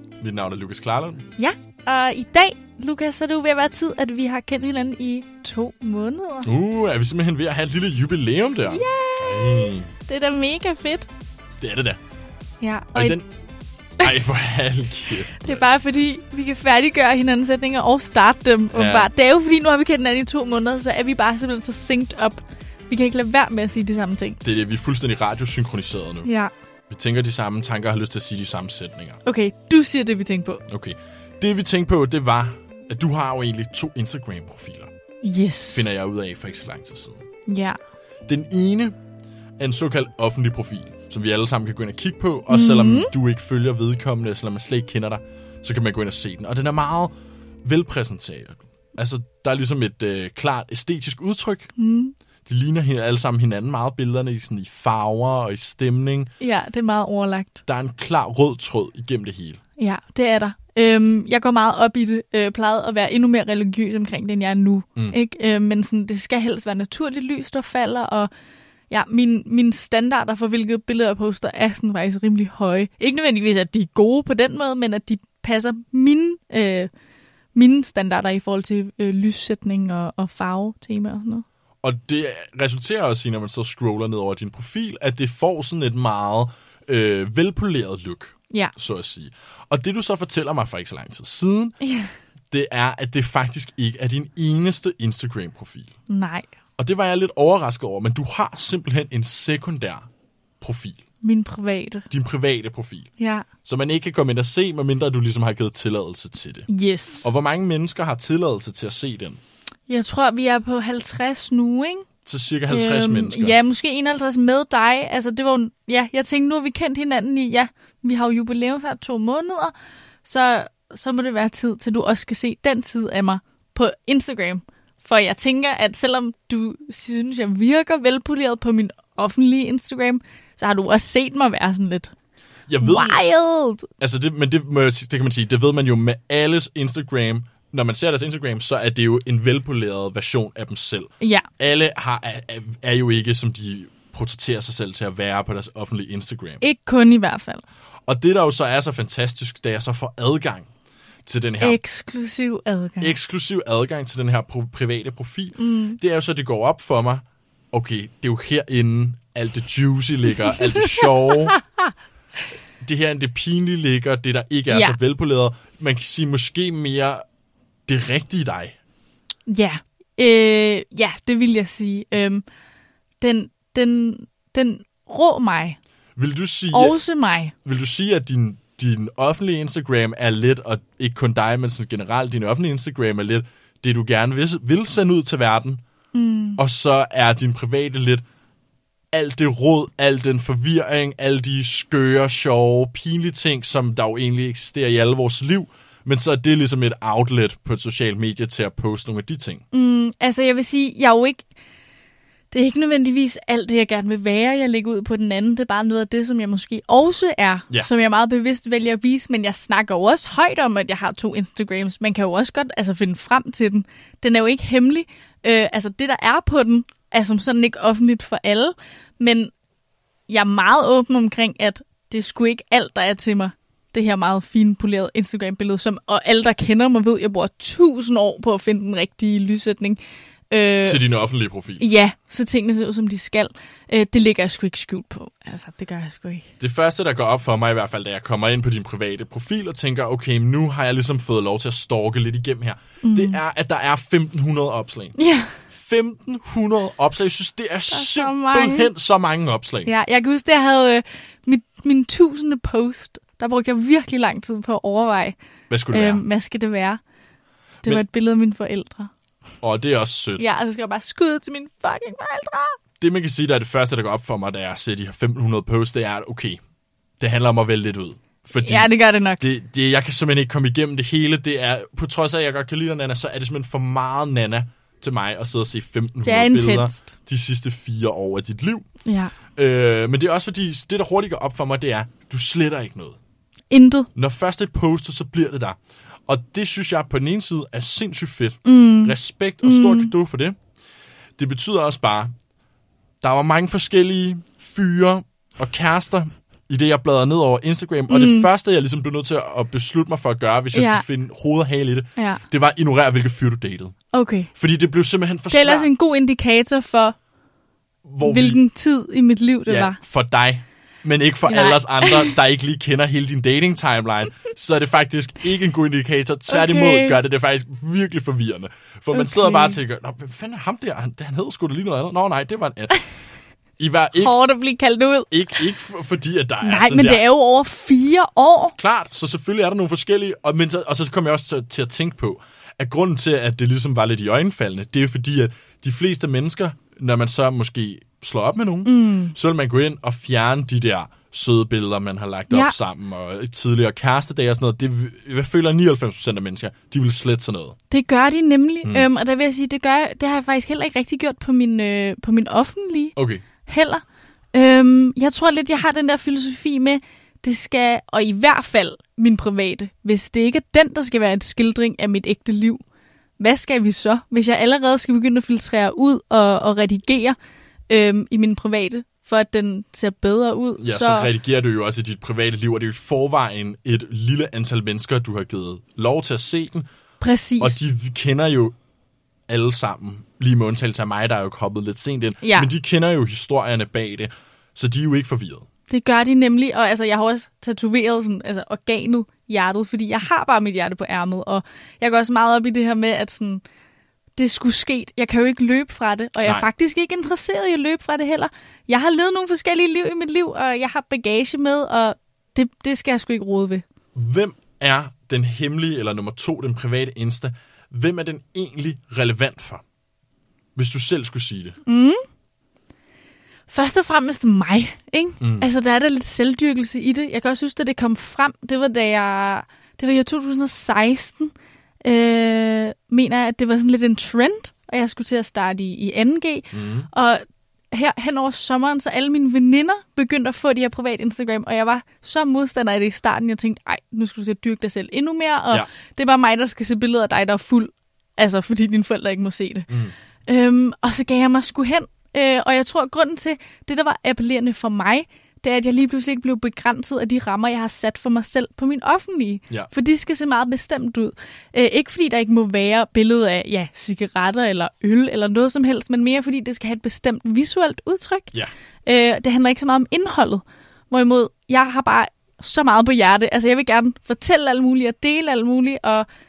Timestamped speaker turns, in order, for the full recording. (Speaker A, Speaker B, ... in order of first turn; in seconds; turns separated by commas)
Speaker A: 0.2-1.2, Speaker B: 1.4-6.5, Speaker A: 6.4-9.9, Speaker B: 8.7-11.1, Speaker A: 11.6-12.0, Speaker B: 12.6-13.2, Speaker A: 12.9-13.3, Speaker A: 14.0-15.6, Speaker B: 15.3-24.4, Speaker A: 18.7-19.1, Speaker A: 24.4-26.3, Speaker B: 26.2-26.5, Speaker A: 26.9-29.2, Speaker B: 29.2-30.6, Speaker A: 30.7-34.9, Speaker B: 35.2-35.9, Speaker A: 35.7-37.2, Speaker B: 37.5-37.8, Speaker A: 38.3-38.9, Speaker A: 39.6-51.7, Speaker B: 42.5-43.1, Speaker B: 51.8-52.1, Speaker A: 52.5-56.3, Speaker B: 56.4-57.6, Speaker A: 57.6-59.6, Speaker B: 59.8-68.3, Speaker B: 68.9-76.9, Speaker B: 77.5-81.4, Speaker A: 81.8-91.8, Speaker B: 91.8-92.1, Speaker A: 92.5-95.9, Speaker B: 96.1-96.5, Speaker A: 96.8-100.1, Speaker A: 100.6-101.0, Speaker B: 101.2-102.1, Speaker A: 102.1-103.1, Speaker B: 103.2-103.5, Speaker A: 103.6-106.7, Speaker B: 106.7-107.3, Speaker A: 107.2-109.4, Speaker B: 109.9-112.1, Speaker A: 112.2-113.6, Speaker B: 112.7-119.7, Speaker B: 120.2-132.1, Speaker A: 132.7-133.2, Speaker B: 132.8-133.9, Speaker A: 134.0-146.6, Speaker B: 141.2-141.5, Speaker B: 146.6-147.6, Speaker A: 148.1-150.7, Speaker A: 151.2-151.8, Speaker B: 151.6-153.1, Speaker A: 153.0-161.6, Speaker B: 155.6-156.0, Speaker B: 160.8-161.9, Speaker A: 162.8-167.2, Speaker B: 164.7-165.0, Speaker A: 167.9-168.8, Speaker B: 169.5-172.4, Speaker B: 173.2-175.8, Speaker A: 176.2-177.0, Speaker B: 176.7-177.5, Speaker A: 177.6-185.8, Speaker B: 186.1-186.6, Speaker A: 186.6-188.2, Speaker A: 189.1-199.6, Speaker B: 199.7-201.4, Speaker B: 202.5-219.5, Speaker B: 220.3-231.1, Speaker A: 230.8-231.8, Speaker B: 231.8-236.5, Speaker A: 236.6-245.1, Speaker B: 243.0-243.4, Speaker B: 245.2-245.6, Speaker A: 245.7-249.9, Speaker B: 247.9-248.9, Speaker B: 249.8-255.3, Speaker A: 255.7-256.2, Speaker B: 255.9-257.0, Speaker B: 257.8-259.1, Speaker A: 259.6-260.4, Speaker B: 260.4-262.8, Speaker A: 263.0-266.6, Speaker A: 267.2-278.9, Speaker B: 268.5-269.4, Speaker B: 276.2-277.0, Speaker B: 279.1-279.3, Speaker A: 279.5-283.2, Speaker B: 283.7-284.1, Speaker A: 284.1-290.6, Speaker B: 288.6-290.1, Speaker A: 291.4-292.3, Speaker A: 293.2-303.9, Speaker B: 298.1-298.5, Speaker B: 300.7-301.0, Speaker B: 302.2-302.4, Speaker B: 304.1-304.5, Speaker A: 304.5-305.9, Speaker B: 305.5-307.2, Speaker A: 308.0-308.6, Speaker B: 308.2-310.0, Speaker A: 309.6-323.0, Speaker B: 311.4-312.4, Speaker B: 316.5-317.2, Speaker B: 319.1-319.8, Speaker A: 323.8-324.3, Speaker B: 324.1-325.3, Speaker A: 325.3-327.2, Speaker B: 326.6-328.7, Speaker A: 328.8-347.8, Speaker B: 338.8-339.3, Speaker B: 347.9-353.1, Speaker A: 353.1-353.4, Speaker B: 353.6-354.0, Speaker B: 354.5-362.8, Speaker B: 363.4-367.4, Speaker B: 367.9-371.3, Speaker A: 370.8-376.9, Speaker B: 377.2-377.8, Speaker A: 377.6-378.8, Speaker A: 379.5-385.6, Speaker B: 382.4-382.7, Speaker B: 385.9-393.6, Speaker B: 394.4-403.8, Speaker A: 404.1-409.8, Speaker A: 410.8-411.8, Speaker B: 411.9-412.2, Speaker B: 413.7-421.5, Speaker A: 415.4-415.7, Speaker B: 422.0-439.9, Speaker A: 426.7-427.1, Speaker B: 440.5-458.5, Speaker B: 459.1-466.2